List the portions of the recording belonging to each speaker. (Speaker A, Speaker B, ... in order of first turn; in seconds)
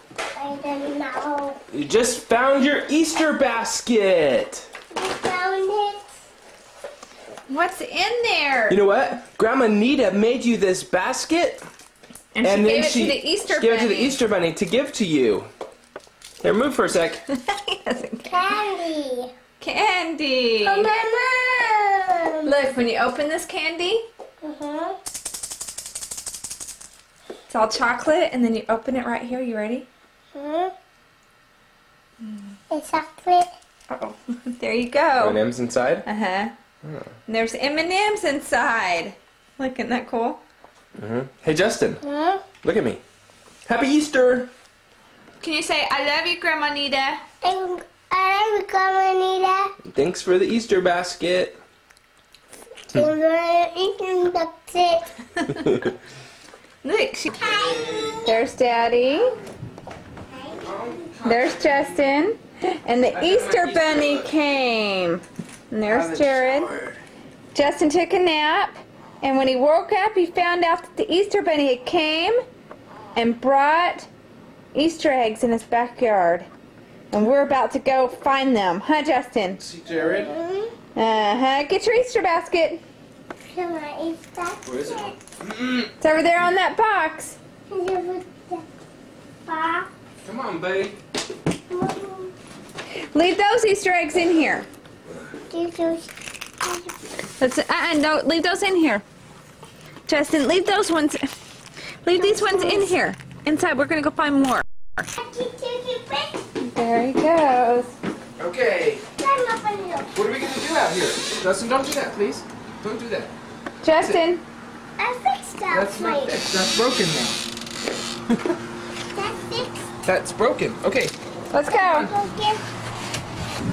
Speaker A: 0.3-1.6, 4.9-6.1, 18.2-19.3, 20.6-22.5, 24.4-25.0, 30.4-30.7, 32.7-33.5, 42.0-42.5, 47.4-49.7, 52.9-55.0, 57.3-58.5, 60.3-61.0, 79.9-80.8, 83.5-85.2, 87.7-88.7, 89.5-89.9, 91.7-92.3, 95.5-97.0, 102.2-102.9, 105.2-106.4, 109.2-110.1, 115.0-116.4, 119.1-119.9, 121.7-122.6
Speaker B: 1.7-4.7, 8.7-11.7, 12.4-15.5, 16.4-17.2, 35.2-36.1, 41.0-42.0, 42.6-43.0, 43.7-44.5, 49.9-51.6, 57.5-58.2, 60.6-62.1, 63.1-64.3, 65.9-67.0, 79.6-80.3, 84.7-85.9, 90.2-91.0, 108.4-109.0, 110.2-113.3, 115.7-117.4, 120.0-121.1
Speaker C: 7.5-8.8, 12.3-14.2, 17.3-18.4, 19.6-20.9, 22.4-24.1, 27.5-29.9, 33.9-35.4, 36.0-36.5, 37.3-40.4, 45.4-47.2, 55.5-55.8, 56.8-57.4, 58.2-59.4, 61.2-66.7, 67.5-72.4, 73.1-74.1, 74.7-76.5, 77.1-79.6, 81.0-82.8, 86.0-87.4, 93.0-94.7, 97.4-99.0, 100.1-101.3, 102.0-105.1, 106.6-107.9, 113.8-114.4, 121.5-122.1